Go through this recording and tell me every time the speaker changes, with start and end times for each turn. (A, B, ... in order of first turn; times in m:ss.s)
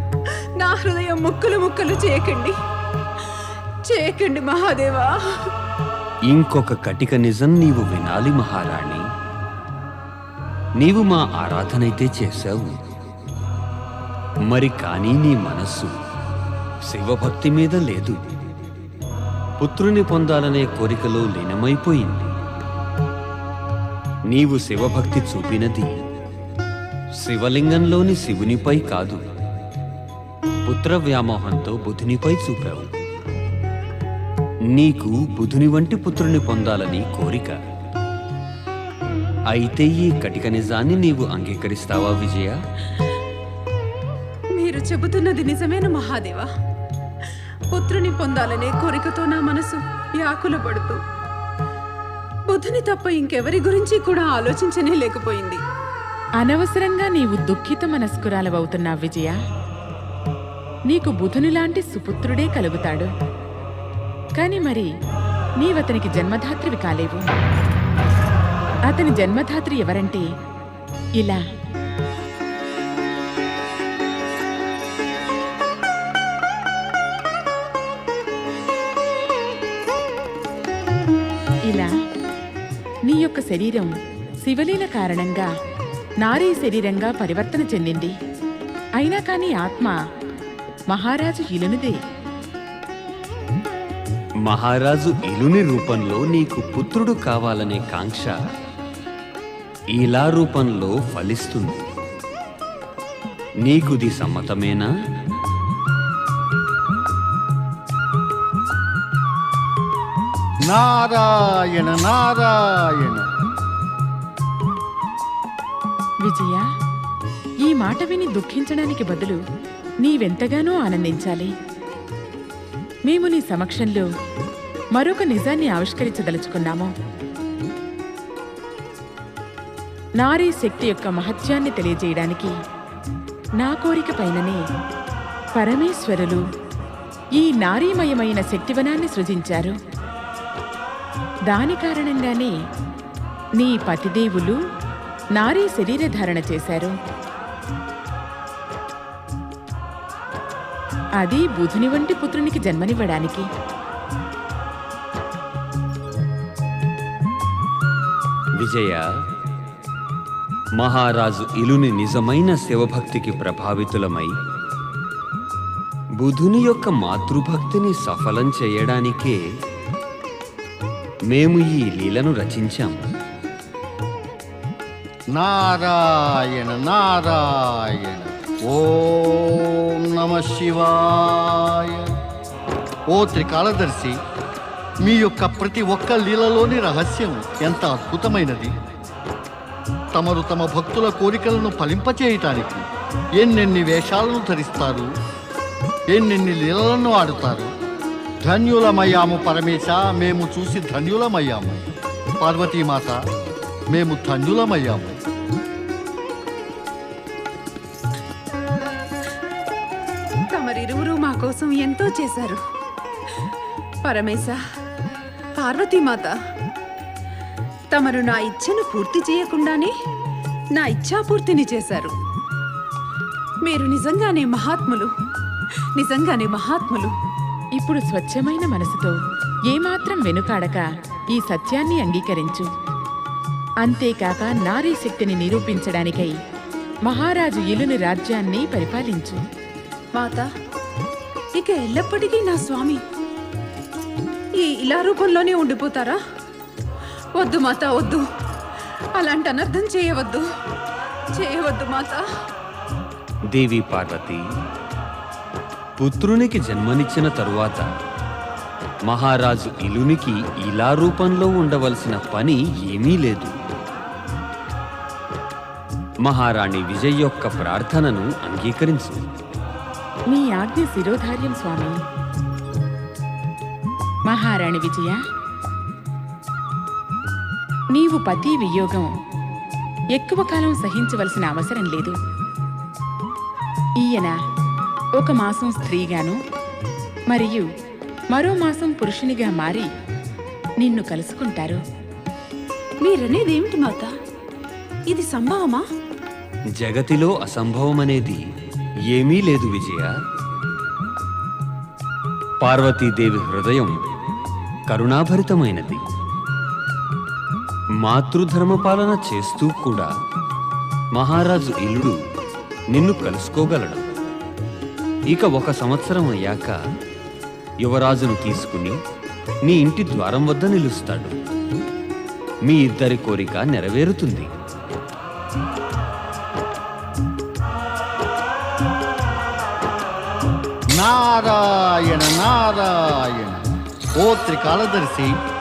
0:00.2-0:02.6 A
0:03.2-0:05.5 A
0:06.3-0:09.0 B
0:10.8-0:12.8 B
0:14.5-0:15.9 B
0:16.9-0:18.2 B
0:19.6-0:22.3 B
0:24.3-0:25.9 B
0:27.2-0:29.2 B
0:30.6-0:32.9 B
0:34.7-0:37.6 B
0:39.5-0:42.6 B
0:44.5-0:46.5 A
0:47.7-0:51.0 A
0:52.5-0:55.6 A
0:56.4-0:59.4 C
1:00.9-1:03.1 C
1:04.4-1:04.9 C
1:05.6-1:07.2 C
1:08.9-1:10.2 C
1:23.1-1:23.9 C
1:24.4-1:25.5 C
1:26.2-1:28.1 C
1:29.0-1:30.0 C
1:30.9-1:32.0 C
1:34.4-1:38.4 B
1:39.9-1:41.8 B
1:43.6-1:44.9 B
1:50.7-1:53.3 D
1:56.2-1:56.6 C
1:57.6-1:59.4 C
2:00.0-2:01.5 C
2:03.1-2:04.0 C
2:04.9-2:06.9 C
2:10.2-2:12.5 C
2:13.6-2:14.6 C
2:15.6-2:16.4 C
2:17.4-2:19.7 C
2:21.5-2:22.5 C
2:23.6-2:24.5 C
2:25.4-2:26.9 C
2:31.2-2:33.4 C
2:38.6-2:39.0 B
2:40.8-2:44.3 B
2:46.2-2:49.4 B
2:51.3-2:53.0 B
2:55.3-3:02.1 D
3:03.1-3:04.2 D
3:05.0-3:08.7 D
3:10.1-3:12.8 D
3:13.4-3:15.1 D
3:16.1-3:17.7 D
3:18.4-3:21.8 D
3:22.4-3:23.2 D
3:23.9-3:25.2 D
3:30.5-3:32.6 A
3:34.0-3:34.6 A
3:35.6-3:36.4 A
3:37.9-3:39.9 A
3:40.7-3:42.1 A
3:43.6-3:45.1 A
3:46.0-3:47.1 A
3:47.8-3:49.1 C
3:49.7-3:52.6 C
3:53.8-3:56.3 C
3:57.0-3:59.4 C
4:00.1-4:00.5 A
4:01.5-4:03.0 A
4:04.6-4:06.2 A
4:07.3-4:08.2 A
4:09.1-4:10.4 A
4:11.3-4:12.2 A
4:13.5-4:14.4 B
4:16.0-4:17.9 B
4:19.1-4:23.5 B
4:26.2-4:29.2 B
4:30.3-4:32.0 C
4:34.3-4:35.2 C
4:37.9-4:39.1 C
4:40.1-4:42.2 C
4:44.0-4:44.4 C
4:45.2-4:46.4 C
4:47.3-4:47.6 C
4:48.3-4:49.9 C
4:50.8-4:51.8 C
4:53.0-4:54.1 A
4:55.1-4:55.8 A
4:56.8-4:58.4 B
4:59.1-5:00.1 B
5:02.6-5:03.9 B
5:04.9-5:06.0 B
5:08.0-5:10.1 B
5:11.1-5:12.2 B
5:12.9-5:14.0 B
5:15.3-5:16.8 B
5:17.8-5:19.0 B
5:19.7-5:21.3 B
5:22.6-5:24.5 B
5:30.9-5:33.6 D
5:34.2-5:35.3 D